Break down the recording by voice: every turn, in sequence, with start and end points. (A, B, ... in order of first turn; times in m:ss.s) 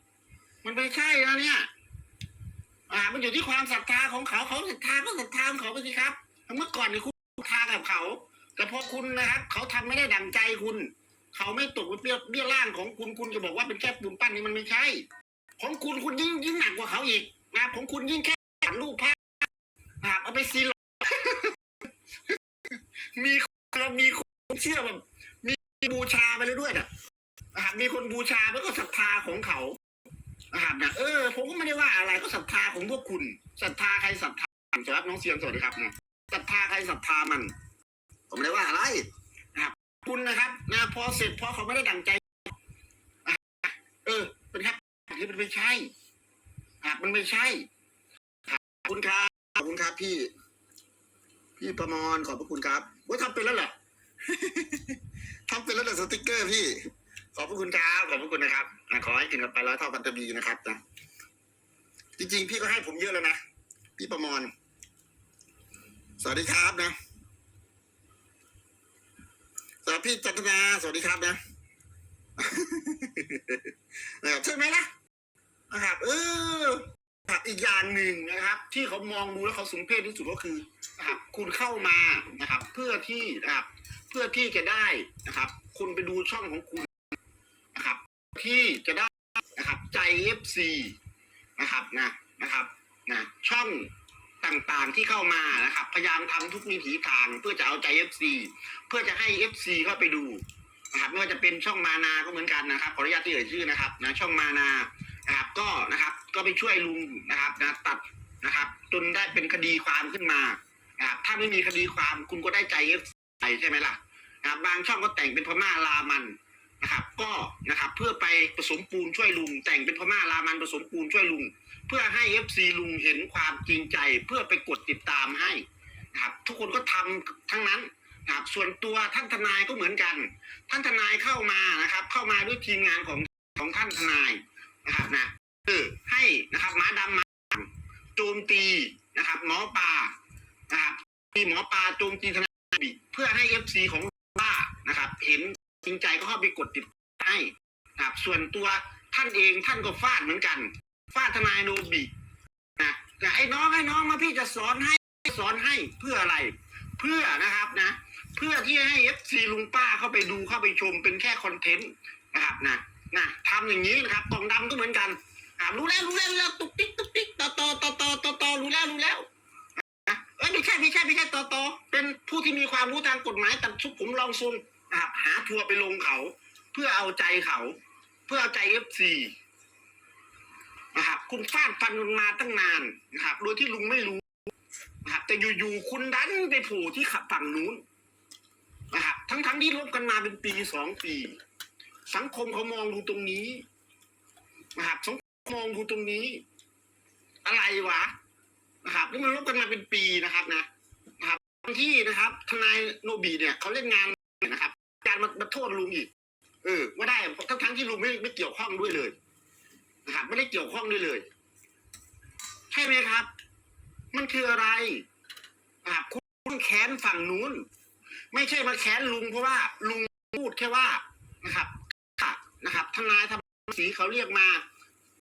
0:00.6-0:01.7 A
0:02.9-0:15.0 A
0:15.6-0:19.4 A
0:20.0-0:21.6 A
0:23.1-0:26.9 A
0:27.5-0:29.8 A
0:30.5-0:37.5 A
0:38.3-0:42.4 A
0:43.2-0:45.9 A
0:46.8-0:47.7 A
0:48.5-0:50.3 A
0:51.6-0:53.7 A
0:54.2-1:00.8 A
1:02.2-1:03.4 A
1:04.0-1:04.5 A
1:06.2-1:07.0 A
1:09.8-1:11.4 A
1:12.4-1:14.9 A
1:15.7-1:26.9 A
1:27.7-1:31.0 A
1:31.6-1:33.9 A
1:34.4-2:20.1 A
2:20.7-2:32.1 A
2:32.8-2:49.3 A
2:49.9-2:59.3 A
3:00.9-3:04.4 A
3:05.0-3:07.8 A
3:08.9-3:11.4 A
3:12.1-3:13.6 A
3:14.8-3:16.4 A
3:17.4-3:18.1 A
3:18.8-3:20.7 A
3:21.2-3:26.1 A
3:26.6-3:29.2 A
3:30.0-3:31.2 A
3:32.7-3:33.3 A
3:34.1-3:35.0 A
3:35.8-3:37.7 A
3:38.3-3:44.6 A